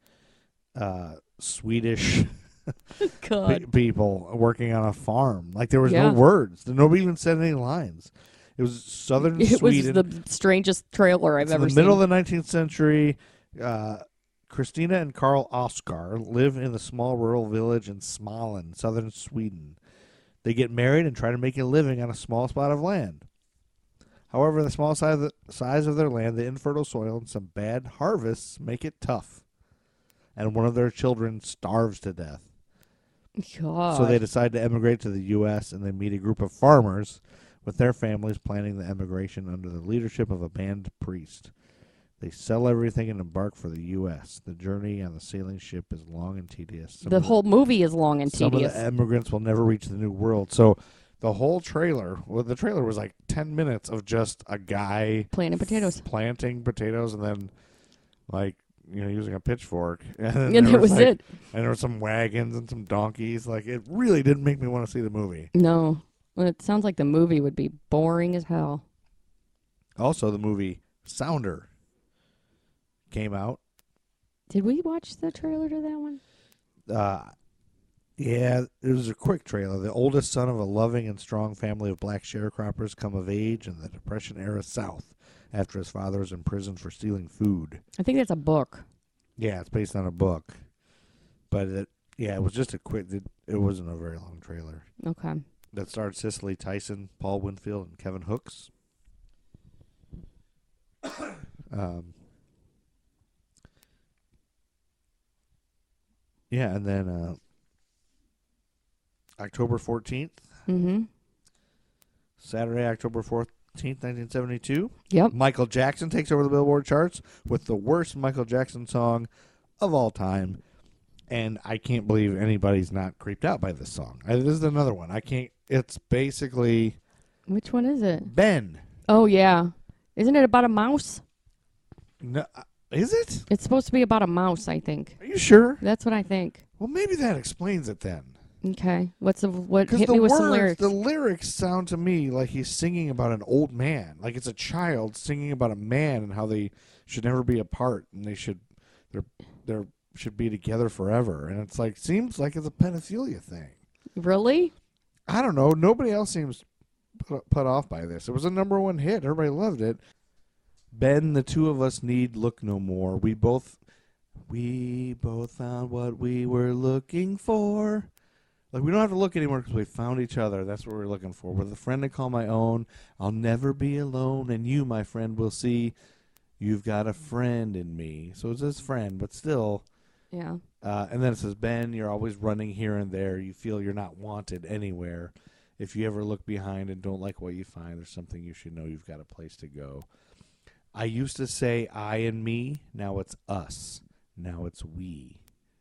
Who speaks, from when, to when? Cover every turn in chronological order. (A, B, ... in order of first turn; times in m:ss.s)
0:00.8-0:02.7 A
0:03.0-0:03.7 B
0:03.4-0:10.1 A
0:05.8-0:06.2 B
0:09.2-0:12.0 B
0:11.4-0:19.8 A
0:20.4-0:23.3 A
0:24.3-0:29.4 A
0:30.4-0:32.5 A
0:33.4-0:34.2 B
0:33.9-0:41.5 A
0:42.2-0:47.4 A
0:47.0-0:48.8 B
0:48.3-0:57.5 A
0:55.3-0:56.0 B
0:58.3-1:05.5 A
1:00.5-1:01.2 B
1:05.5-1:08.8 B
1:10.0-1:11.7 A
1:13.1-1:13.6 A
1:14.5-1:16.2 B
1:16.9-1:17.3 A
1:18.2-1:27.8 A
1:28.0-1:28.8 B
1:29.4-1:30.6 A
1:31.5-1:34.9 A
1:35.0-1:35.4 B
1:35.7-1:38.7 A
1:41.7-1:42.2 A
1:46.5-1:47.4 A
1:49.4-1:50.4 A
1:50.7-1:51.1 B
1:52.4-1:59.3 A
1:59.8-2:00.6 A
2:01.3-2:07.0 A
2:07.5-2:08.3 B
2:08.2-2:08.8 A
2:09.1-2:11.2 B
2:12.2-2:13.5 A
2:13.5-2:15.2 B
2:15.2-2:15.8 A
2:15.8-2:16.6 B
2:16.8-2:18.4 A
2:18.6-2:20.9 B
2:19.9-2:33.8 A
2:34.2-2:34.7 B
2:35.3-2:36.6 A
2:37.2-2:40.0 A
2:40.9-2:43.8 A
2:44.5-2:48.1 A
2:48.7-2:56.0 A
2:56.6-2:59.8 A
3:00.3-3:00.6 B
3:00.8-3:10.1 A
3:11.0-3:15.4 A